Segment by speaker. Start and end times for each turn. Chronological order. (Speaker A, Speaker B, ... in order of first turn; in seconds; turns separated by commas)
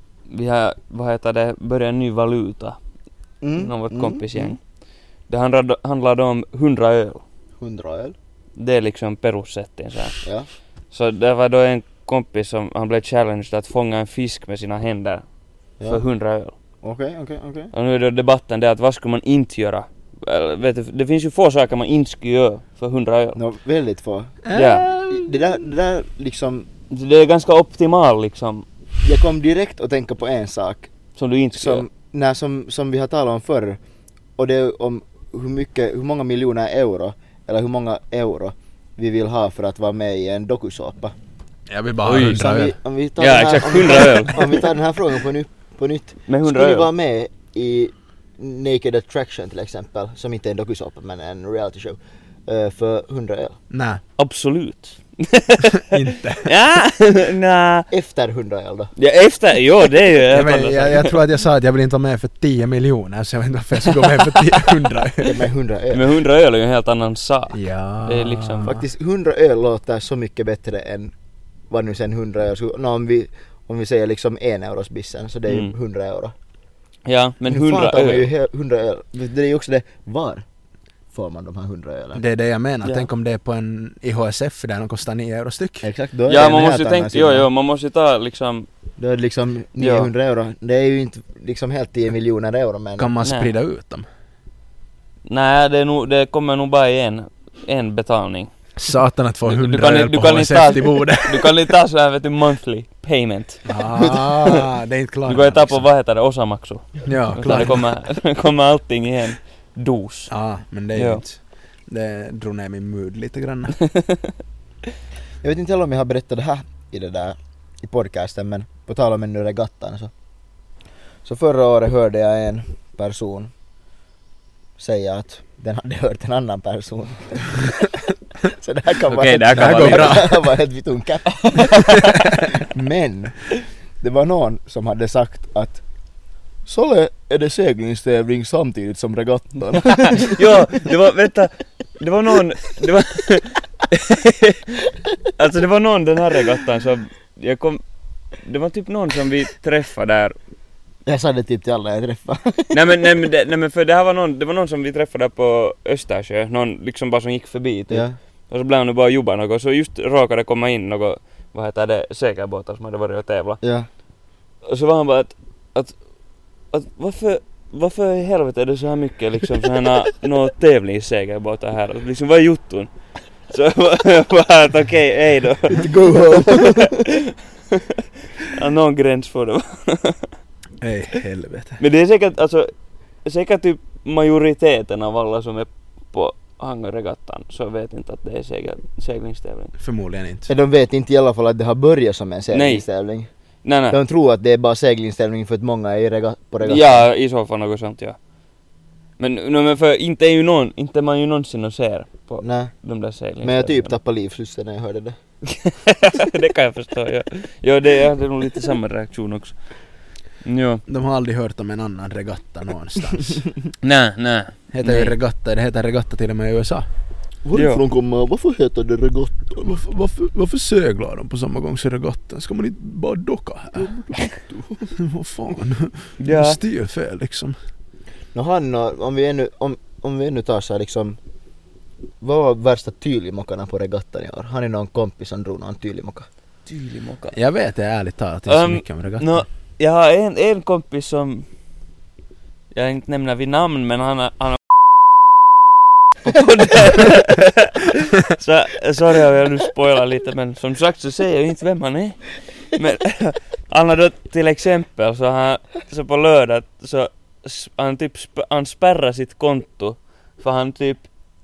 Speaker A: 0.3-2.8, Speaker B: 3.4-4.5, Speaker A: 3.6-4.6, Speaker A: 5.3-7.2, Speaker B: 7.6-8.2, Speaker A: 8.6-10.3, Speaker B: 10.2-10.5, Speaker A: 10.9-15.2, Speaker A: 15.9-16.5, Speaker B: 16.8-17.7, Speaker A: 17.7-23.4, Speaker B: 23.4-24.4, Speaker C: 24.4-25.5, Speaker A: 24.6-24.9, Speaker B: 25.1-26.7, Speaker A: 26.9-28.6, Speaker B: 29.0-30.9, Speaker A: 31.2-31.9, Speaker B: 31.5-33.8, Speaker B: 34.4-41.1, Speaker C: 41.7-42.8, Speaker A: 42.1-42.4, Speaker B: 42.1-53.6, Speaker A: 43.2-44.6, Speaker A: 46.3-46.9, Speaker C: 53.7-54.0, Speaker A: 54.2-57.9, Speaker C: 55.8-56.5, Speaker B: 57.9-58.9, Speaker A: 59.0-61.2, Speaker C: 60.3-65.5, Speaker A: 64.0-64.4, Speaker B: 65.2-66.1, Speaker A: 65.9-68.7, Speaker C: 67.5-68.8, Speaker B: 68.6-71.1, Speaker B: 71.7-76.3, Speaker A: 75.5-75.7, Speaker A: 77.0-78.3, Speaker B: 77.5-80.5, Speaker B: 81.1-82.2, Speaker C: 82.2-85.9, Speaker B: 85.8-87.5, Speaker A: 86.3-88.7, Speaker B: 89.0-93.1, Speaker A: 89.8-90.1, Speaker C: 93.0-94.0, Speaker A: 93.2-93.5, Speaker A: 95.3-98.5, Speaker C: 98.8-101.7, Speaker A: 99.5-104.7, Speaker C: 103.7-105.9, Speaker A: 105.3-110.3, Speaker C: 107.0-107.9, Speaker C: 110.3-113.8, Speaker A: 110.9-111.2, Speaker A: 113.8-114.3, Speaker B: 115.4-120.1, Speaker B: 121.2-123.5, Speaker B: 124.8-135.8, Speaker A: 129.1-130.3, Speaker C: 129.5-130.4, Speaker A: 131.6-131.9, Speaker C: 131.8-132.3, Speaker B: 136.7-140.4, Speaker A: 139.9-147.8, Speaker A: 148.3-150.4, Speaker B: 151.1-152.8, Speaker A: 152.7-163.6, Speaker B: 157.9-158.2, Speaker B: 163.6-163.9, Speaker A: 164.6-166.0, Speaker A: 166.7-172.9, Speaker A: 173.5-180.3, Speaker B: 175.7-177.0, Speaker C: 180.8-181.8, Speaker A: 181.8-182.7, Speaker A: 183.2-189.7, Speaker C: 189.8-190.5, Speaker B: 190.5-193.3, Speaker A: 192.5-192.9, Speaker A: 193.6-194.0, Speaker B: 193.9-197.1, Speaker A: 196.6-198.2, Speaker A: 199.2-203.9, Speaker B: 202.4-202.7, Speaker B: 203.4-205.2, Speaker A: 205.5-209.6, Speaker A: 210.4-210.8, Speaker C: 210.9-213.5, Speaker A: 213.8-215.1, Speaker C: 214.7-216.9, Speaker B: 217.4-219.8, Speaker A: 217.5-217.8, Speaker C: 219.6-224.0, Speaker B: 223.8-224.9, Speaker C: 224.9-227.6, Speaker A: 226.2-226.6, Speaker B: 228.3-231.2, Speaker B: 232.2-236.3, Speaker A: 236.7-237.4, Speaker C: 237.3-239.4, Speaker A: 238.5-241.5, Speaker A: 242.7-244.8, Speaker A: 246.2-261.1